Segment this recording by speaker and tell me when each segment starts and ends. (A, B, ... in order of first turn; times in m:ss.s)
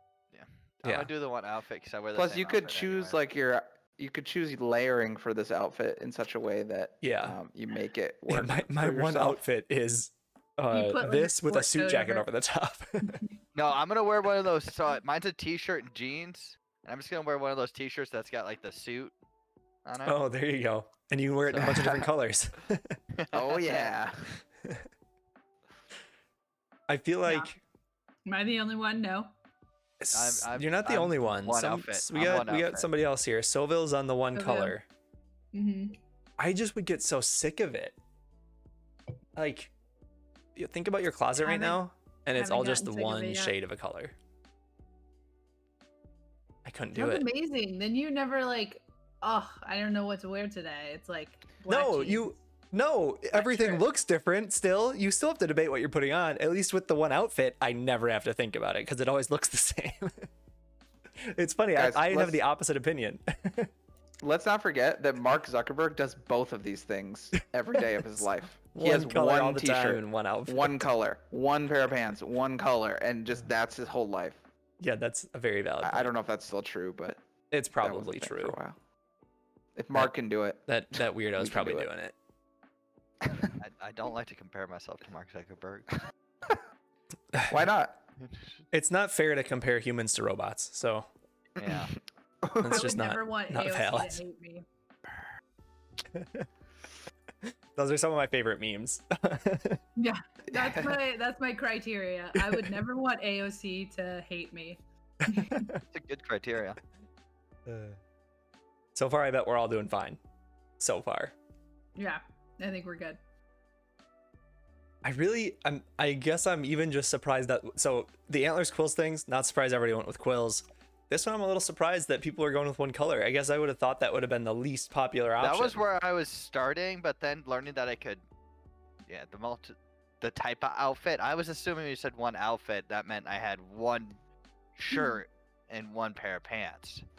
0:00.3-0:03.2 A
0:00.8-0:01.1 B
0:02.2-0:09.4 C
0:07.0-0:07.4 B
0:08.3-0:13.2 B
0:10.7-0:12.3 D
0:13.6-0:19.2 A
0:19.8-0:20.2 A
0:20.0-0:23.0 B
0:21.6-0:22.1 C
0:23.2-0:23.9 A
0:23.3-0:24.4 C
0:26.9-0:27.6 B
0:28.3-0:29.3 D
0:30.0-0:34.8 B
0:30.1-0:32.9 A
0:34.4-0:34.8 D
0:35.5-0:36.0 D
0:36.4-0:38.0 B
0:39.4-0:39.7 B
0:40.6-0:44.2 B
0:41.4-0:41.8 D
0:42.3-0:43.6 D
0:46.6-0:47.3 B
0:47.0-0:52.3 D
0:51.7-1:00.3 B
0:53.3-0:53.8 D
1:01.2-1:03.7 B
1:01.8-1:02.4 C
1:04.2-1:14.4 C
1:08.7-1:10.9 B
1:14.8-1:16.1 B
1:15.8-1:17.2 C
1:17.5-1:18.6 B
1:17.8-1:18.8 C
1:19.8-1:20.7 C
1:20.7-1:22.1 B
1:21.4-1:21.9 C
1:23.2-1:23.6 C
1:23.6-1:26.0 A
1:27.5-1:28.0 C
1:28.7-1:31.1 B
1:31.6-1:32.0 A
1:32.4-1:32.9 C
1:32.6-1:34.2 B
1:32.6-1:34.6 D
1:36.1-1:36.5 B
1:37.5-1:39.8 B
1:40.0-1:45.6 D
1:40.5-1:41.0 C
1:45.2-1:45.8 B
1:45.9-1:46.8 A
1:47.7-1:48.0 B
1:49.0-1:50.2 B
1:50.8-1:51.3 B
1:52.0-1:53.2 D
1:55.0-2:05.8 B
2:05.4-2:08.2 A
2:09.1-2:14.2 A
2:14.8-2:17.0 A
2:14.9-2:15.2 D